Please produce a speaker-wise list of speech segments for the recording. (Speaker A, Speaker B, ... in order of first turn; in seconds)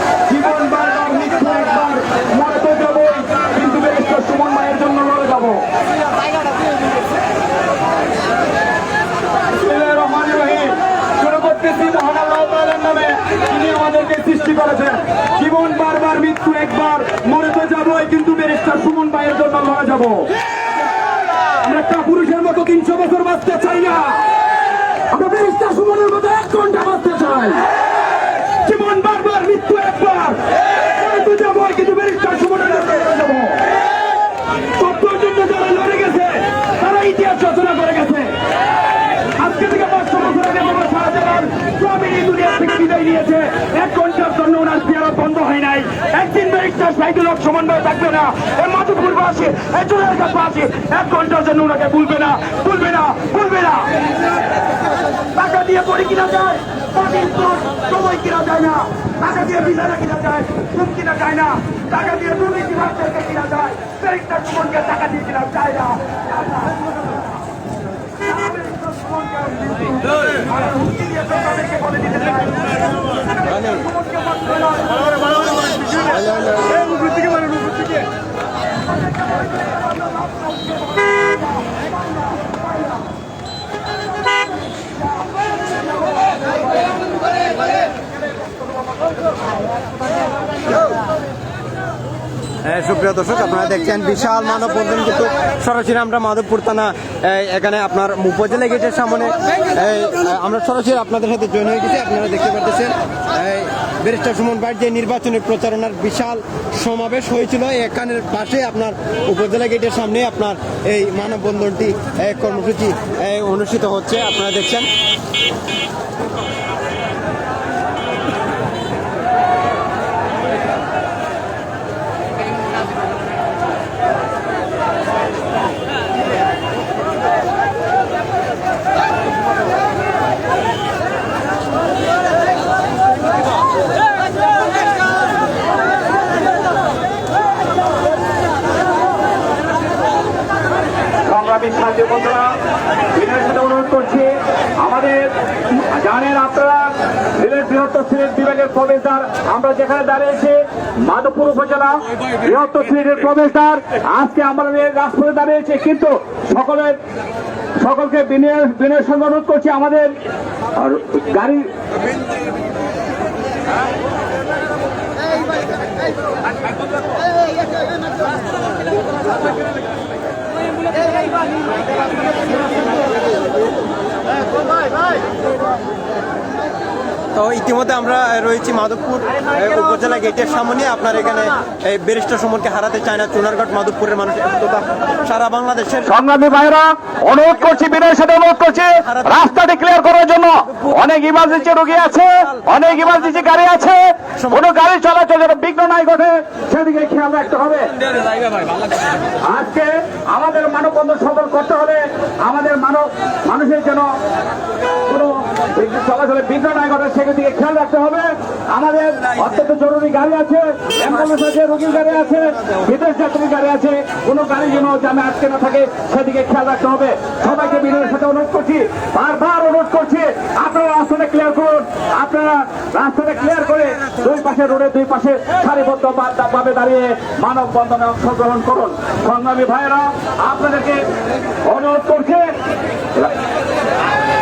Speaker A: 0.3-5.6, 9.6-20.3, 21.6-24.3, 25.1-27.7, 28.4-33.7, 34.8-38.4, 39.4-54.0, 55.3-66.8, 68.3-72.7, 73.6-75.3, 141.3-142.6, 143.1-157.0, 157.8-160.1, 160.8-161.7, 186.1-198.0, 199.4-204.1, 205.1-231.1, 231.7-232.5
Speaker B: 73.6-73.9, 76.0-76.8, 92.6-114.9, 177.3-186.1, 189.1-189.4